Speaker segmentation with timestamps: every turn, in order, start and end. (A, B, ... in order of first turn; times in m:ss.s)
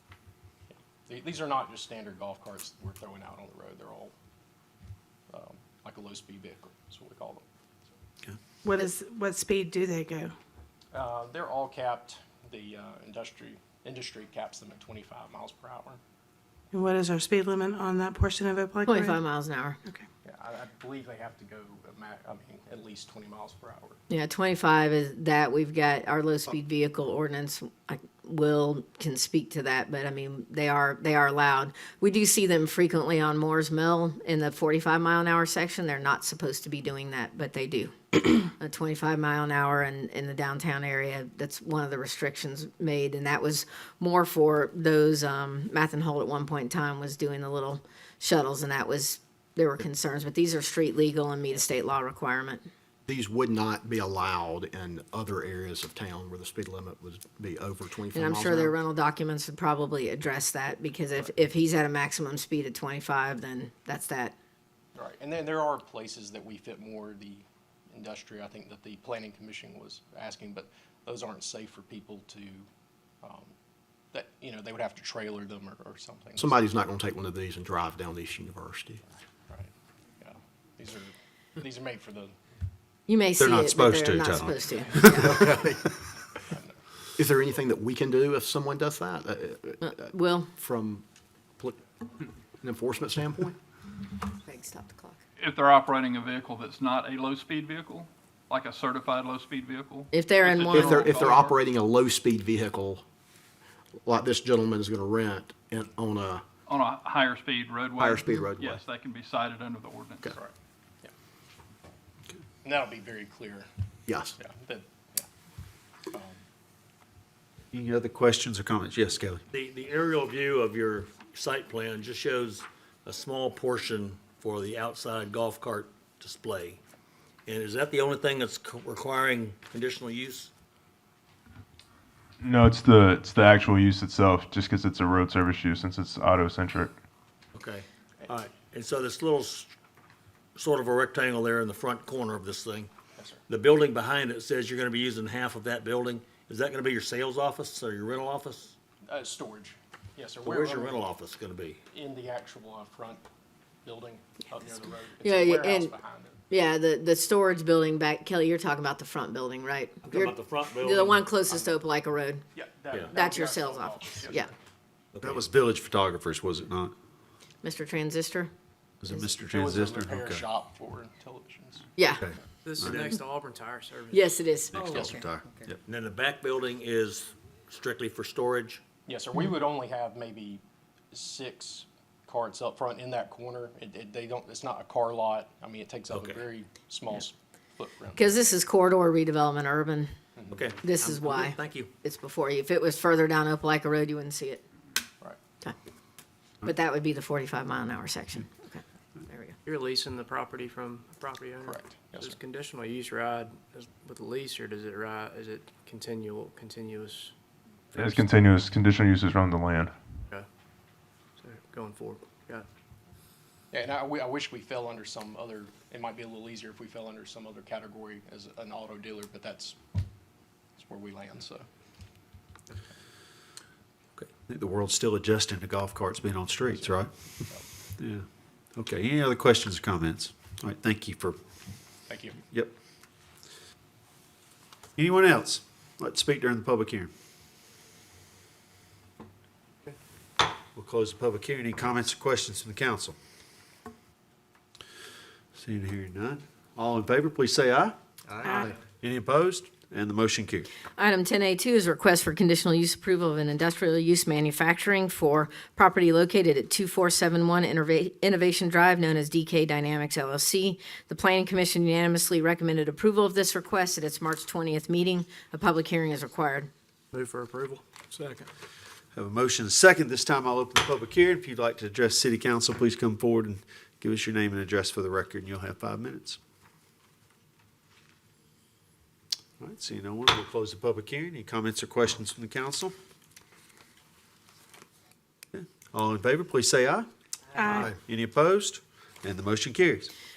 0:00.7-0:04.1 A
0:05.3-0:07.4 A
0:08.6-0:10.3 B
0:10.9-0:16.0 A
0:16.7-0:18.8 B
0:18.9-0:19.8 C
0:20.2-0:24.0 A
0:24.1-0:52.7 C
0:53.1-0:58.8 D
0:58.1-1:04.3 C
1:04.9-1:12.7 A
1:13.2-1:13.5 A
1:14.1-1:16.6 A
1:16.4-1:19.0 D
1:19.5-1:22.3 A
1:23.1-1:25.4 C
1:23.4-1:25.6 E
1:25.0-1:25.9 D
1:26.5-1:26.8 A
1:27.2-1:30.0 D
1:29.8-1:30.5 C
1:30.6-1:31.0 D
1:32.6-1:33.6 D
1:34.4-1:35.2 C
1:35.4-1:41.6 F
1:40.1-1:41.2 C
1:40.7-1:43.0 D
1:44.0-1:46.4 D
1:46.7-1:50.3 F
1:48.0-1:48.8 D
1:50.3-1:51.1 A
1:52.6-1:53.7 A
1:54.1-1:54.4 D
1:54.4-1:55.3 A
1:56.1-1:56.4 A
1:57.7-1:59.4 E
1:59.5-2:06.8 G
2:07.4-2:10.5 G
2:12.4-2:16.9 H
2:17.5-2:19.7 G
2:20.5-2:22.9 G
2:23.5-2:28.7 G
2:29.0-2:31.0 A
2:30.4-2:31.8 G
2:31.9-2:33.2 A
2:33.8-2:36.4 A
2:35.2-2:35.9 C
2:36.5-2:42.4 C
2:40.0-2:41.7 G
2:42.5-2:44.6 A
2:43.1-2:44.5 C
2:45.1-2:45.4 G
2:45.2-2:46.9 E
2:47.6-2:48.5 C
2:49.0-2:50.4 E
2:49.4-2:51.9 A
2:52.0-2:52.2 C
2:52.2-2:53.0 E
2:52.6-2:54.5 I
2:54.1-2:55.2 C
2:54.7-2:55.8 E
2:55.8-2:58.8 G
2:59.0-3:08.5 A
3:06.1-3:06.4 G
3:08.2-3:10.1 C
3:10.4-3:10.6 A
3:10.5-3:11.9 G
3:10.8-3:14.6 C
3:16.6-3:19.6 C
3:19.6-3:27.3 I
3:21.6-3:22.4 A
3:27.9-3:28.3 I
3:27.9-3:29.9 H
3:31.4-3:32.7 I
3:33.7-3:39.8 A
3:40.8-3:41.7 A
3:44.5-3:47.1 E
3:46.7-3:46.9 A
3:48.0-3:48.2 E
3:48.8-3:51.4 E
3:52.1-3:52.4 A
3:55.0-3:57.1 E
4:00.7-4:03.2 E
4:05.5-4:10.7 E
4:11.0-4:26.7 C
4:27.1-4:27.8 I
4:29.1-4:36.4 E
4:39.6-4:42.9 E
4:45.5-4:47.1 E
4:47.6-4:50.1 E